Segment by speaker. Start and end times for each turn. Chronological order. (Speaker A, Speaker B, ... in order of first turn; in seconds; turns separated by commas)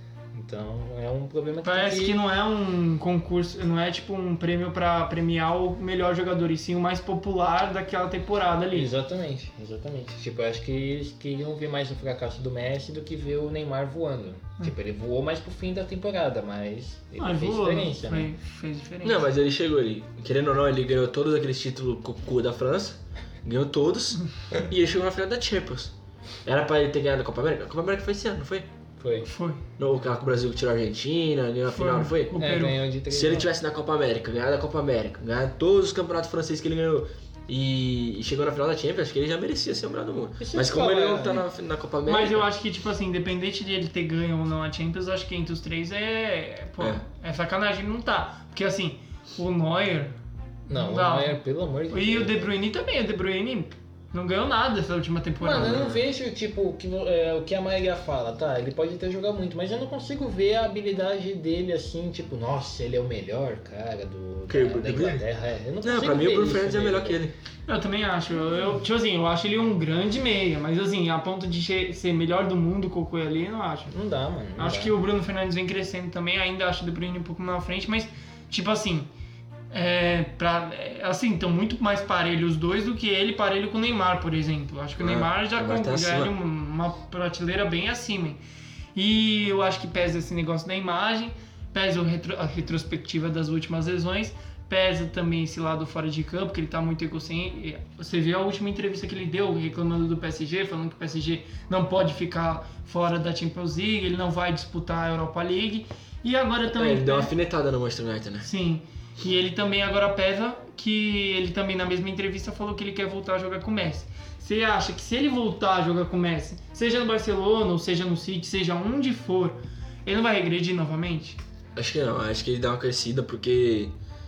Speaker A: 0.3-2.2, Speaker B: 1.6-8.9, Speaker A: 8.7-18.3, Speaker B: 17.2-19.2, Speaker C: 19.0-25.9, Speaker C: 26.4-28.7, Speaker A: 29.0-29.3, Speaker B: 29.3-29.6, Speaker C: 29.8-32.4, Speaker B: 31.7-32.8, Speaker A: 32.4-33.5, Speaker C: 33.1-42.5, Speaker A: 40.4-41.4, Speaker B: 42.1-50.1, Speaker B: 50.7-51.4, Speaker A: 50.7-52.5, Speaker B: 51.9-55.9, Speaker A: 55.4-67.2, Speaker C: 55.5-56.0, Speaker C: 64.5-65.2, Speaker C: 65.8-67.3, Speaker B: 67.7-73.9, Speaker A: 73.9-75.0, Speaker B: 74.6-79.1, Speaker B: 79.7-88.4, Speaker C: 85.0-86.3, Speaker B: 89.0-107.3, Speaker C: 106.7-108.5, Speaker B: 108.4-121.4, Speaker C: 121.8-123.9